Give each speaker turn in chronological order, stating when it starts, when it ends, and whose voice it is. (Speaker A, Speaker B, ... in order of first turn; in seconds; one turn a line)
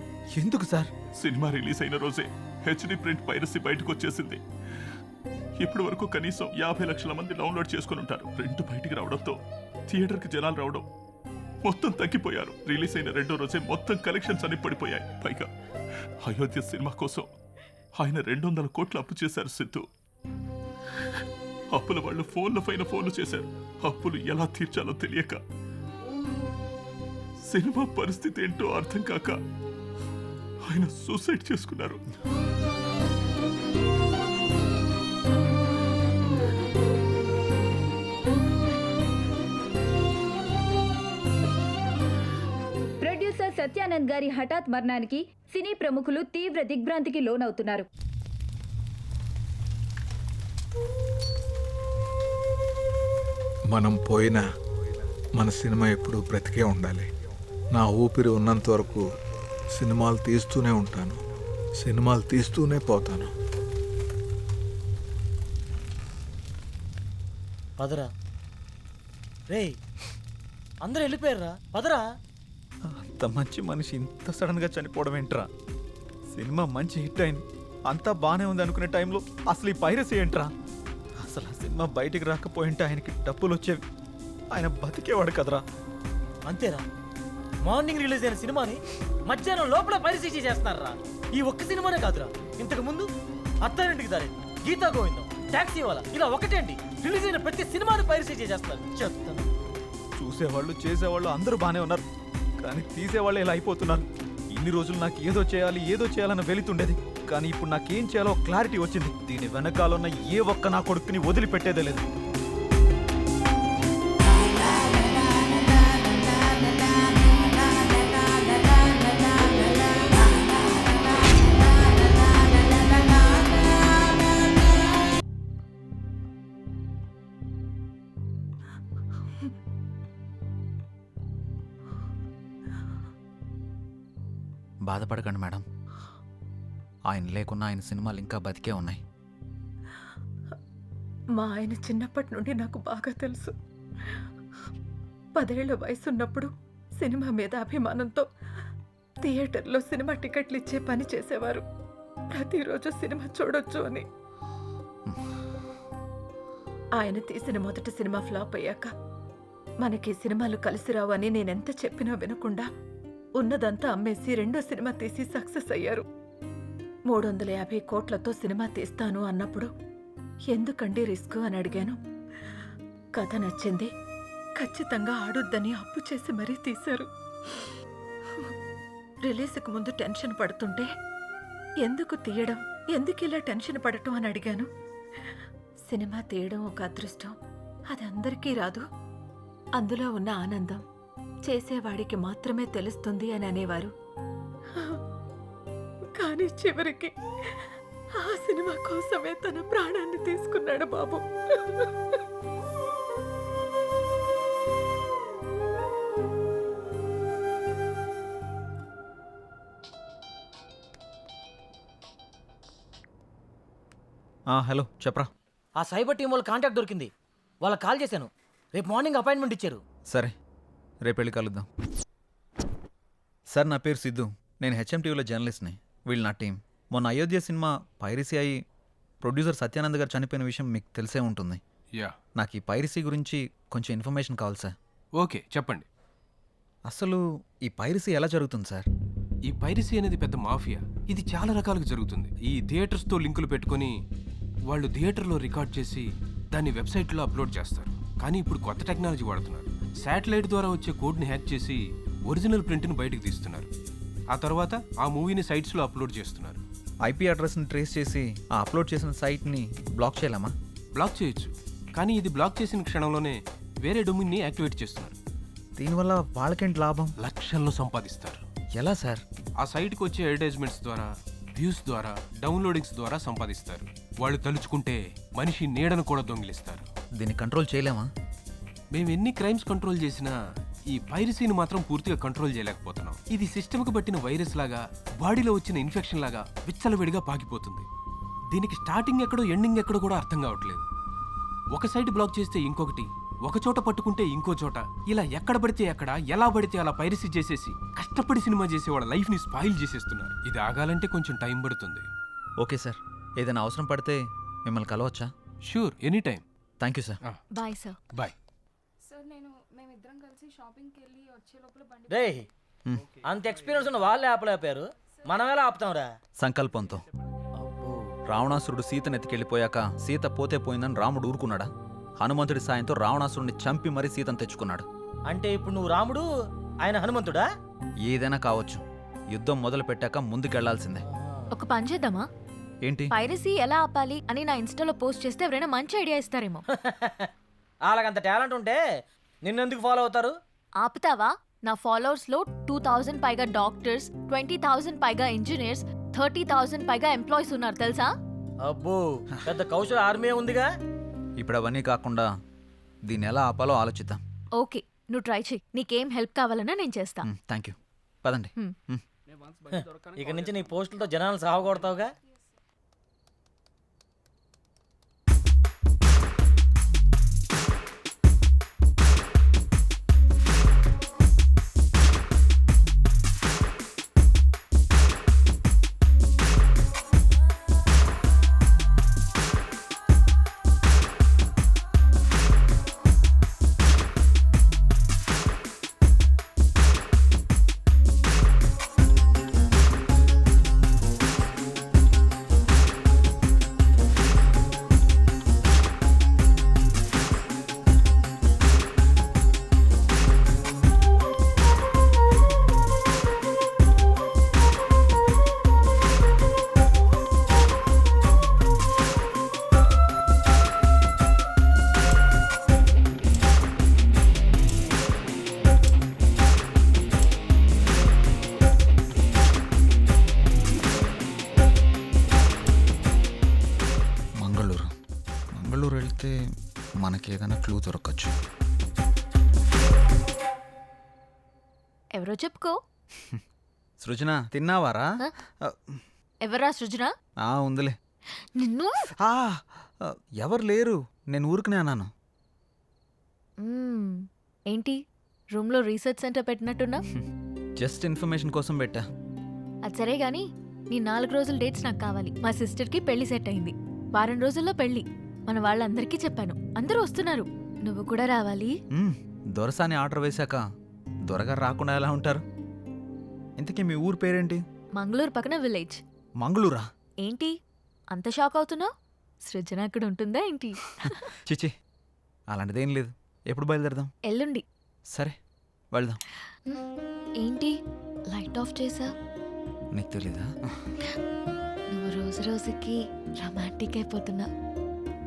Speaker A: 0.3-0.9
Speaker B: 1.2-4.4
Speaker B: 5.6-9.4
Speaker B: 9.9-10.8
Speaker B: 11.7-15.5
Speaker B: 16.2-17.3
Speaker B: 18.0-19.9
Speaker B: 21.7-25.4
Speaker B: 27.5-29.4
Speaker B: 30.7-32.0
Speaker C: 43.0-47.9
Speaker D: 53.7-54.4
Speaker D: 55.4-57.1
Speaker D: 57.8-59.0
Speaker D: 59.7-61.2
Speaker D: 61.8-63.3
Speaker E: 67.8-68.1
Speaker E: 69.5-69.8
Speaker E: 70.8-72.0
Speaker A: 72.9-75.5
Speaker A: 76.3-80.5
Speaker A: 81.2-83.8
Speaker A: 84.5-85.6
Speaker E: 86.5-86.8
Speaker E: 87.7-93.1
Speaker E: 93.6-99.5
Speaker A: 100.2-102.0
Speaker A: 102.6-112.1
Speaker A: 134.9-135.7
Speaker A: 137.1-139.0
Speaker F: 141.4-143.5
Speaker F: 145.4-148.3
Speaker F: 149.2-151.6
Speaker F: 152.3-154.0
Speaker F: 157.0-158.9
Speaker F: 159.8-162.7
Speaker F: 163.4-166.0
Speaker F: 167.1-169.7
Speaker F: 170.5-172.0
Speaker F: 173.2-173.9
Speaker F: 174.6-177.7
Speaker F: 179.3-180.9
Speaker F: 181.8-184.7
Speaker F: 185.9-187.3
Speaker F: 187.9-188.8
Speaker F: 189.8-190.8
Speaker F: 191.5-193.9
Speaker F: 196.2-197.6
Speaker F: 198.2-201.9
Speaker A: 214.5-215.3
Speaker E: 215.8-217.1
Speaker E: 217.6-219.8
Speaker A: 220.1-220.3
Speaker A: 221.1-221.7
Speaker A: 223.5-228.6
Speaker A: 229.2-231.6
Speaker A: 232.4-234.7
Speaker G: 235.2-235.9
Speaker A: 236.9-238.9
Speaker G: 239.5-243.9
Speaker G: 244.7-253.7
Speaker G: 254.3-256.6
Speaker A: 257.0-260.6
Speaker G: 261.0-265.1
Speaker A: 265.8-267.1
Speaker G: 267.2-268.4
Speaker A: 268.8-269.2
Speaker G: 269.6-276.9
Speaker A: 277.2-278.1
Speaker G: 278.9-280.4
Speaker G: 280.9-287.9
Speaker G: 288.5-290.9
Speaker G: 291.7-302.1
Speaker A: 302.6-305.3
Speaker G: 305.7-306.4
Speaker A: 306.8-307.2
Speaker H: 307.5-308.0
Speaker I: 309.1-312.2
Speaker E: 312.1-312.5
Speaker E: 313.2-316.1
Speaker A: 316.4-317.0
Speaker E: 317.6-318.1
Speaker A: 318.3-324.9
Speaker E: 325.3-326.2
Speaker E: 326.8-327.5
Speaker A: 328.1-331.0
Speaker E: 331.0-331.5
Speaker H: 331.5-332.3
Speaker A: 332.8-333.1
Speaker H: 333.1-336.6
Speaker E: 336.8-337.3
Speaker E: 337.9-338.8
Speaker E: 339.4-340.3
Speaker H: 340.8-348.1
Speaker E: 348.7-350.7
Speaker A: 351.4-352.3
Speaker A: 353.1-354.2
Speaker H: 354.6-357.3
Speaker A: 357.2-359.0
Speaker E: 359.7-362.1
Speaker A: 424.4-424.9
Speaker A: 425.6-426.4
Speaker A: 427.0-428.4
Speaker H: 432.2-432.8
Speaker A: 434.0-436.0
Speaker H: 436.4-437.1
Speaker A: 437.4-437.9
Speaker H: 438.6-439.1
Speaker A: 439.2-442.1
Speaker H: 443.6-445.0
Speaker H: 445.6-447.0
Speaker A: 447.1-449.0
Speaker H: 449.9-458.8
Speaker A: 458.9-460.6
Speaker A: 461.3-462.4
Speaker A: 463.6-464.6
Speaker H: 465.0-466.0
Speaker A: 466.4-466.9
Speaker H: 467.2-467.5
Speaker H: 468.1-468.9
Speaker H: 469.4-471.3
Speaker A: 471.0-471.7
Speaker A: 472.5-474.1
Speaker H: 474.3-474.6
Speaker A: 475.1-475.4
Speaker A: 475.9-476.2
Speaker H: 477.4-477.8
Speaker H: 478.3-479.1
Speaker A: 479.9-480.5
Speaker H: 481.9-484.5